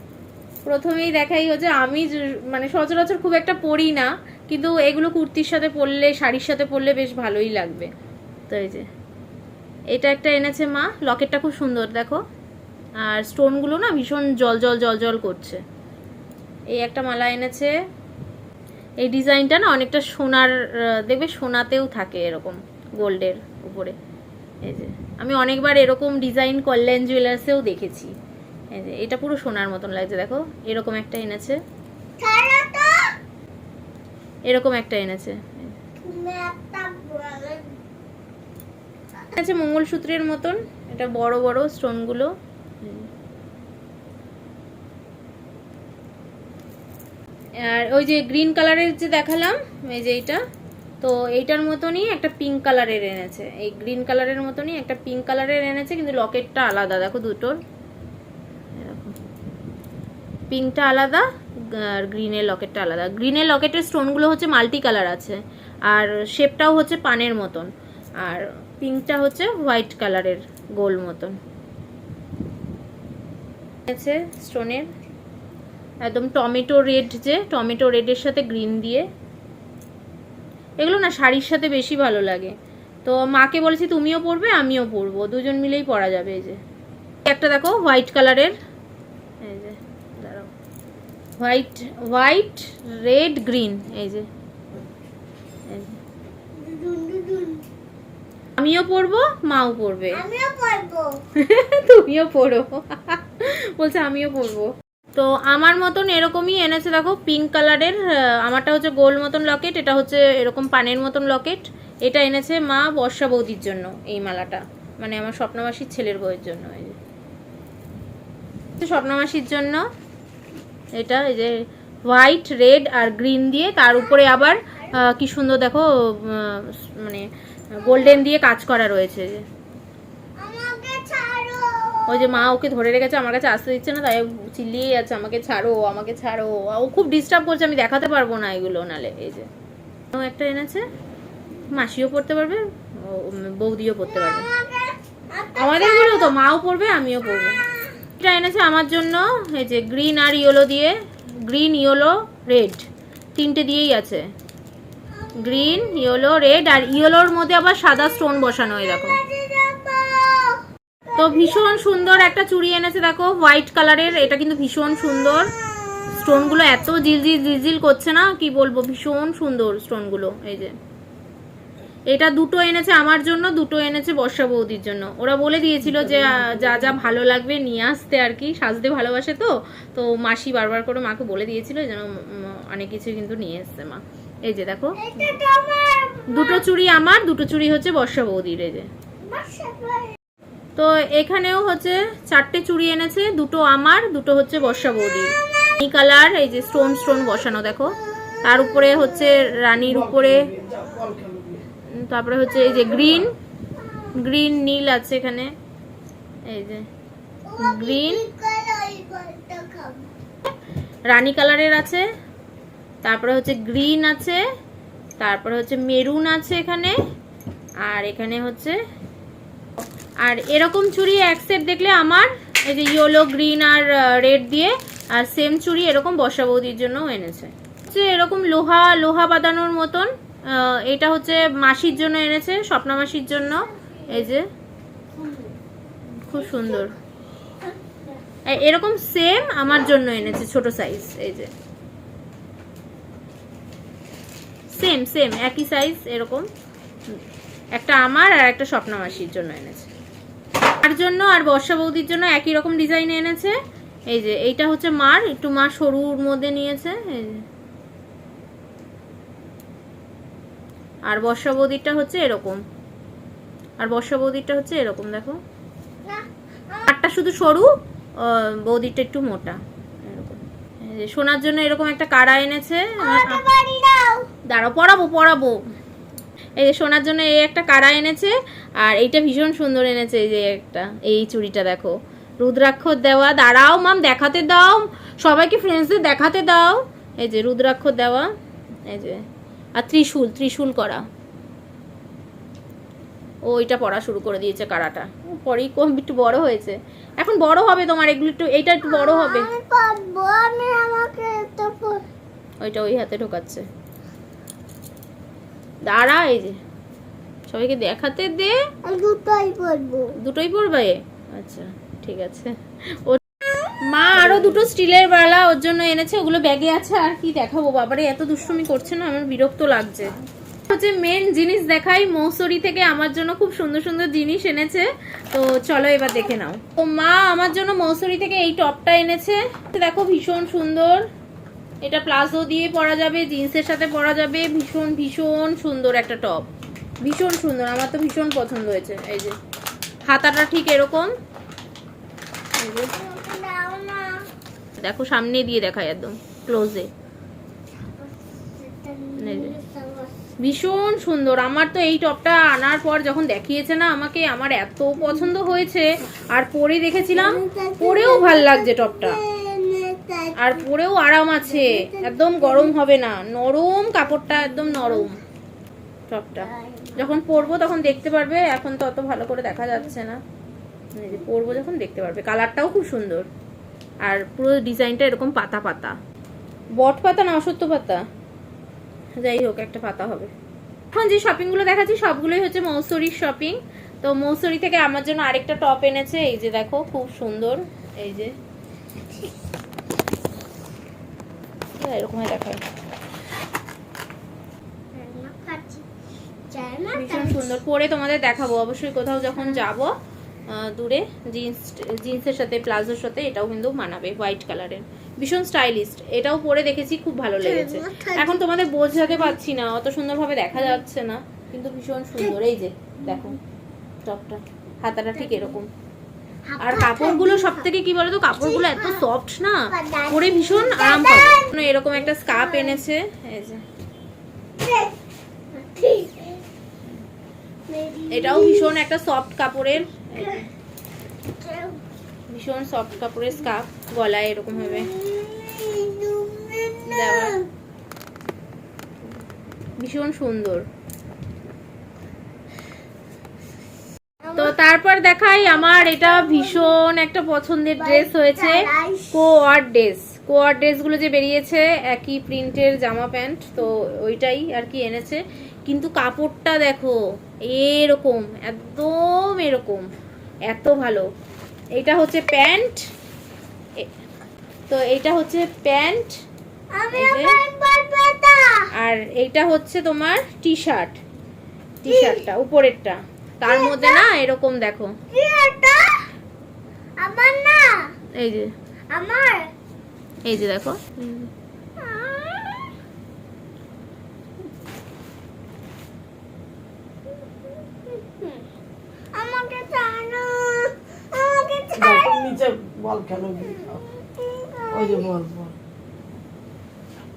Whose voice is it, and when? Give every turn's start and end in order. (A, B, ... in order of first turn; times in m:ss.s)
0:00.6-0:07.9 A
0:08.5-0:08.8 A
0:09.9-0:12.2 A
0:13.0-0:15.6 A
0:16.7-0:17.7 A
0:19.0-0:23.9 A
0:24.6-0:28.1 A
0:28.7-0:31.6 A
0:32.2-0:33.1 B
0:34.5-0:35.7 A
0:36.0-0:37.7 B
0:39.3-0:43.1 A
0:47.6-0:50.4 A
0:51.0-0:57.6 A
0:58.7-0:59.1 A
1:00.5-1:07.7 A
1:08.2-1:11.4 A
1:13.9-1:14.9 A
1:16.0-1:19.0 A
1:20.8-1:22.5 A
1:23.0-1:26.6 A
1:27.2-1:28.6 A
1:29.4-1:30.5 A
1:31.4-1:34.2 A
1:35.7-1:36.0 A
1:36.6-1:37.6 B
1:38.6-1:40.2 A
1:40.1-1:41.1 B
1:41.4-1:57.0 A
1:58.8-1:59.8 A
2:01.0-2:09.4 A
2:03.8-2:05.0 B
2:07.8-2:08.2 B
2:10.4-2:12.5 B
2:12.1-2:19.5 A
2:20.1-2:20.8 A
2:21.7-2:24.5 A
2:24.0-2:26.3 B
2:25.6-2:27.6 A
2:27.5-2:27.8 B
2:28.2-2:30.9 A
2:31.4-2:34.2 A
2:35.1-2:36.4 B
2:35.4-2:39.2 A
2:37.9-2:42.3 B
2:41.2-2:45.5 A
2:45.2-2:46.9 B
2:46.1-2:50.7 A
2:52.1-3:05.4 A
2:55.8-2:57.0 C
3:05.0-3:06.6 B
3:06.3-3:08.9 A
3:09.3-3:10.2 B
3:10.8-3:20.5 A
3:14.6-3:19.5 B
3:19.8-3:21.6 C
3:21.9-3:23.3 A
3:22.4-3:23.3 B
3:23.8-3:24.1 B
3:24.2-3:25.5 A
3:26.5-3:26.8 A
3:27.4-3:30.1 B
3:27.6-3:28.3 A
3:31.1-3:32.0 A
3:33.0-3:34.4 A
3:35.2-3:37.0 A
3:37.8-3:38.8 A
3:39.8-3:54.4 A
3:53.8-3:54.3 B
3:55.1-3:55.5 B
3:56.2-3:56.9 A
3:56.3-3:56.9 B
3:57.6-3:58.2 B
3:58.5-4:01.5 A
4:04.7-4:06.4 A
4:07.7-4:09.9 A
4:10.8-4:13.6 A
4:14.1-4:17.4 A
4:21.1-4:22.6 A
4:23.8-4:25.4 A
4:26.0-4:26.9 B
4:26.9-4:33.4 A
4:33.0-4:34.3 B
4:34.5-4:35.6 A
4:36.6-4:48.3 A
4:48.9-4:49.2 A
4:49.8-4:51.0 A
4:53.4-4:59.5 A
4:58.8-5:02.0 B
5:02.6-5:03.6 A
5:05.8-5:06.6 A
5:07.5-5:08.6 A
5:08.8-5:10.1 B
5:10.2-5:13.2 A
5:13.4-5:13.7 B
5:13.8-5:20.1 A
5:20.7-5:31.0 A
5:31.8-5:36.5 A
5:37.0-5:39.3 A
5:40.1-5:41.1 A
5:42.6-5:42.9 A
5:42.9-5:44.2 B
5:44.8-5:46.9 A
5:48.0-5:50.1 B
5:49.2-5:49.5 A
5:50.4-5:59.2 A
5:56.9-6:00.7 B
6:00.4-6:05.2 A
6:01.4-6:02.8 B
6:04.3-6:05.1 B
6:06.1-6:10.2 A
6:06.4-6:07.7 B
6:10.9-6:13.3 A
6:14.0-6:16.0 A
6:16.8-6:18.0 A
6:19.2-6:20.3 A
6:20.9-6:28.3 A
6:31.8-6:32.6 A
6:34.9-6:35.9 B
6:36.5-6:37.6 B
6:36.9-6:39.9 A
6:39.4-6:39.6 B
6:40.5-6:53.4 A
6:47.4-6:48.4 B
6:53.0-6:53.4 B
6:54.0-6:55.7 A
6:55.1-6:55.6 B
6:56.5-6:57.7 B
6:56.6-7:03.6 A
6:58.4-6:59.1 B
6:59.7-7:02.8 B
7:04.6-7:05.0 B
7:05.5-7:06.4 B
7:07.7-7:08.8 B
7:08.1-7:10.5 A
7:10.1-7:10.4 B
7:11.4-7:11.8 B
7:12.3-7:14.9 A
7:14.5-7:17.5 B
7:16.9-7:17.4 A
7:19.8-7:20.6 A
7:24.2-7:24.5 B
7:24.3-7:39.8 A
7:25.4-7:26.8 B
7:27.8-7:29.2 B
7:40.5-7:41.1 A
7:41.8-7:42.8 A
7:44.7-7:46.1 A
7:46.7-7:48.7 B
7:46.9-7:47.4 A
7:48.8-7:51.0 A
7:51.8-7:54.9 A
7:51.8-7:52.2 B
7:53.4-7:54.1 B
7:55.1-7:56.0 B
7:57.0-7:57.8 B
7:58.1-7:58.5 A
7:58.9-7:59.5 B
8:00.2-8:01.3 A
8:01.8-8:02.7 B
8:07.5-8:08.4 B
8:09.1-8:12.3 B
8:11.8-8:13.8 C
8:13.4-8:15.1 B
8:14.7-8:15.5 C